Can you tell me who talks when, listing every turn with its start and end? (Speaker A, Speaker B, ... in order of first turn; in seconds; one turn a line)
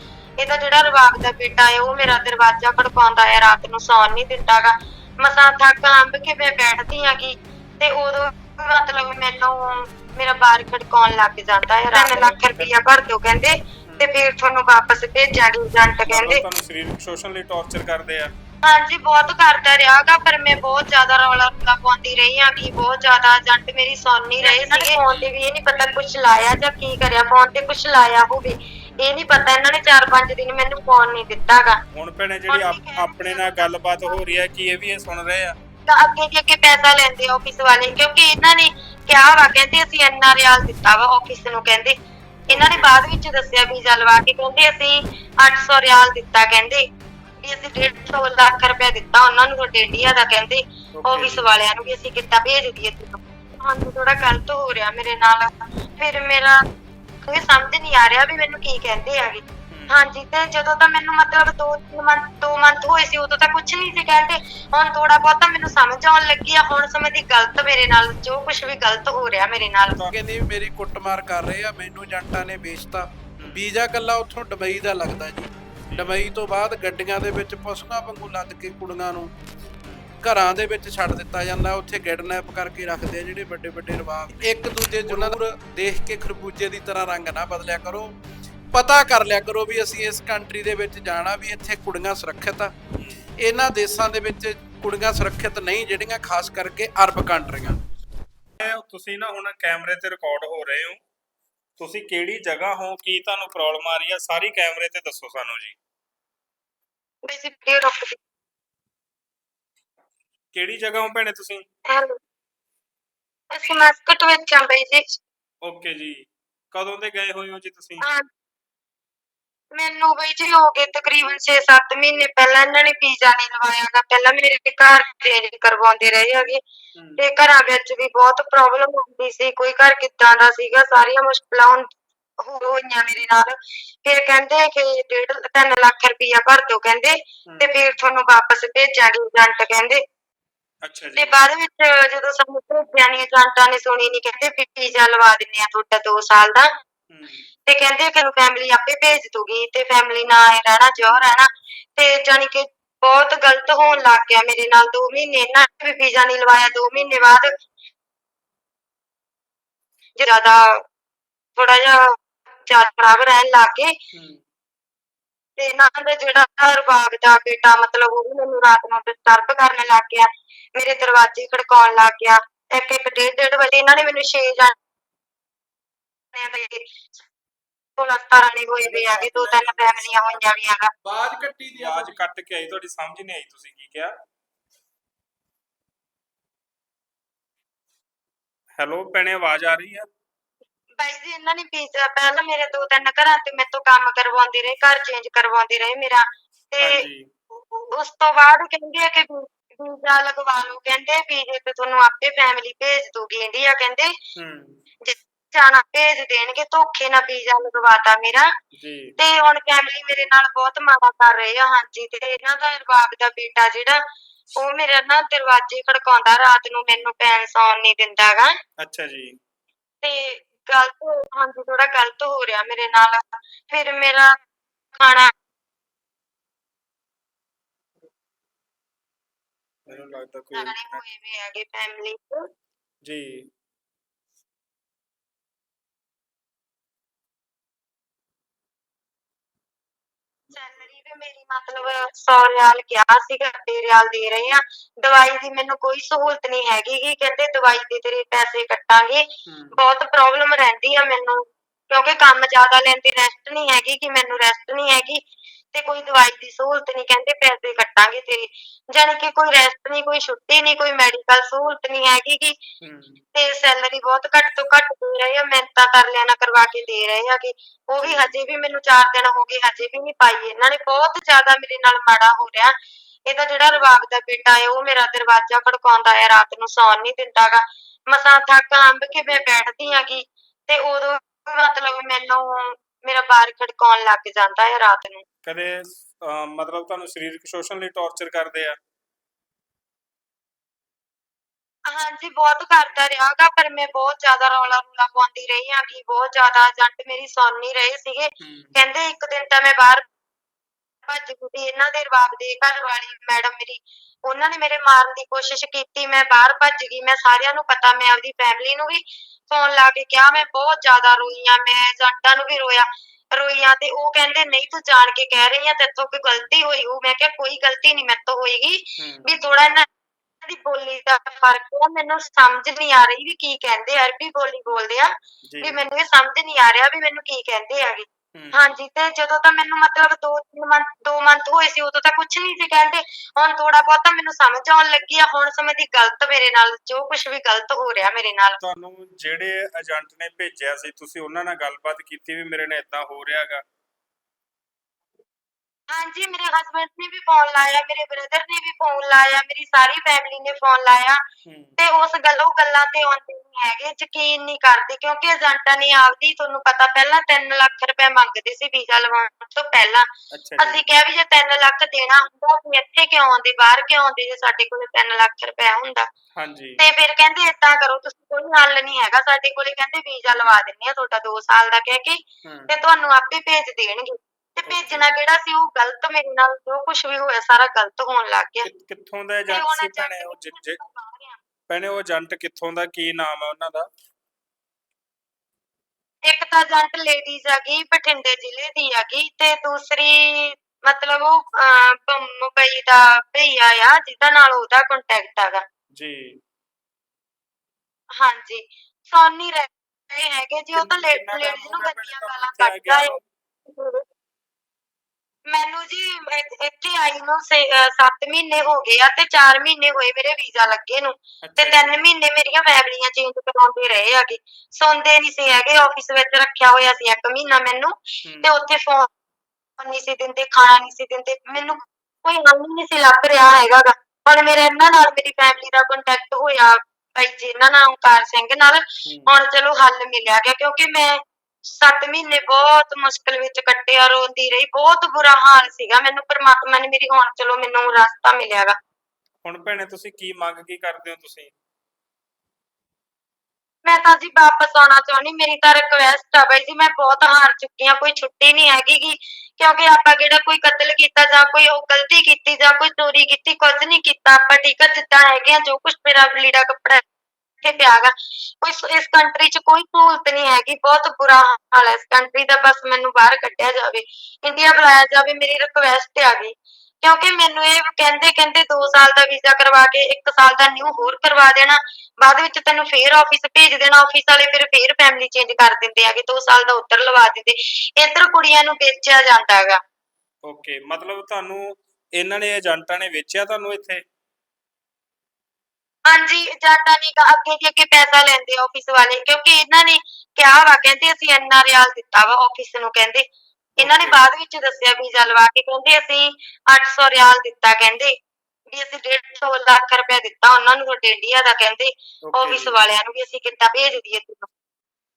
Speaker A: 0.4-16.4
Speaker B: 11.9-12.7
Speaker B: 16.1-18.3
Speaker A: 18.6-31.8
Speaker B: 24.4-25.3
Speaker B: 31.9-35.6
Speaker A: 32.5-34.1
Speaker A: 35.9-41.9
Speaker A: 42.5-46.8
Speaker B: 42.5-42.9
Speaker A: 47.4-56.6
Speaker B: 51.0-51.5
Speaker A: 57.2-70.0
Speaker B: 59.7-60.0
Speaker B: 69.9-70.2
Speaker C: 70.1-79.3
Speaker B: 75.9-76.2
Speaker C: 80.2-88.2
Speaker B: 85.1-85.4
Speaker C: 88.7-92.7
Speaker B: 93.0-93.2
Speaker C: 93.4-97.8
Speaker B: 98.6-101.0
Speaker B: 101.8-105.8
Speaker A: 107.3-108.2
Speaker B: 110.5-111.6
Speaker A: 111.9-112.2
Speaker A: 113.5-115.2
Speaker B: 115.6-118.0
Speaker A: 119.8-126.6
Speaker B: 127.0-127.2
Speaker A: 127.2-131.9
Speaker A: 132.4-140.0
Speaker B: 137.5-137.8
Speaker B: 140.8-141.4
Speaker A: 141.2-146.7
Speaker B: 147.1-147.4
Speaker A: 147.7-157.5
Speaker A: 160.2-160.8
Speaker A: 161.6-163.9
Speaker B: 164.1-164.4
Speaker A: 165.6-174.8
Speaker A: 176.3-176.8
Speaker A: 178.0-180.9
Speaker B: 178.8-180.5
Speaker C: 181.0-182.1
Speaker B: 181.8-184.1
Speaker B: 188.8-190.1
Speaker A: 191.0-197.0
Speaker B: 196.8-197.3
Speaker A: 197.7-204.1
Speaker B: 204.4-204.8
Speaker A: 205.1-208.5
Speaker B: 208.8-209.2
Speaker A: 209.2-214.0
Speaker A: 214.6-218.5
Speaker B: 218.8-219.4
Speaker A: 220.0-224.3
Speaker A: 225.0-225.3
Speaker B: 229.9-231.0
Speaker A: 230.5-232.4
Speaker B: 233.1-233.4
Speaker A: 240.5-249.2
Speaker B: 249.5-249.8
Speaker A: 249.8-251.4
Speaker A: 251.9-255.2
Speaker A: 255.7-262.5
Speaker B: 262.8-263.2
Speaker A: 263.4-272.7
Speaker B: 268.0-268.4
Speaker A: 273.3-285.2
Speaker B: 285.4-288.8
Speaker A: 291.9-300.0
Speaker B: 298.4-298.8
Speaker A: 301.1-319.9
Speaker B: 319.0-319.3
Speaker A: 320.5-325.1
Speaker B: 325.4-325.8
Speaker A: 325.6-338.6
Speaker B: 328.4-328.8
Speaker B: 338.6-343.6
Speaker A: 345.9-351.2
Speaker B: 351.5-351.8
Speaker A: 351.8-360.1
Speaker B: 360.3-360.8
Speaker A: 360.6-366.1
Speaker B: 366.4-366.8
Speaker A: 366.8-372.2
Speaker B: 372.4-372.8
Speaker A: 372.7-378.7
Speaker B: 374.7-375.1
Speaker B: 378.6-380.8
Speaker A: 379.5-381.4
Speaker B: 381.7-383.9
Speaker A: 386.3-395.6
Speaker B: 396.0-396.2
Speaker A: 398.2-403.1
Speaker B: 400.7-403.2
Speaker A: 403.7-404.0
Speaker A: 405.5-419.1
Speaker B: 411.4-412.0
Speaker B: 418.2-418.6
Speaker A: 419.8-438.8
Speaker B: 429.1-429.3
Speaker B: 439.4-441.5
Speaker A: 443.9-457.0
Speaker A: 457.6-479.8
Speaker B: 480.5-484.0
Speaker A: 486.1-493.2
Speaker A: 493.8-498.1
Speaker B: 493.8-494.2
Speaker A: 498.7-504.5
Speaker B: 502.3-502.8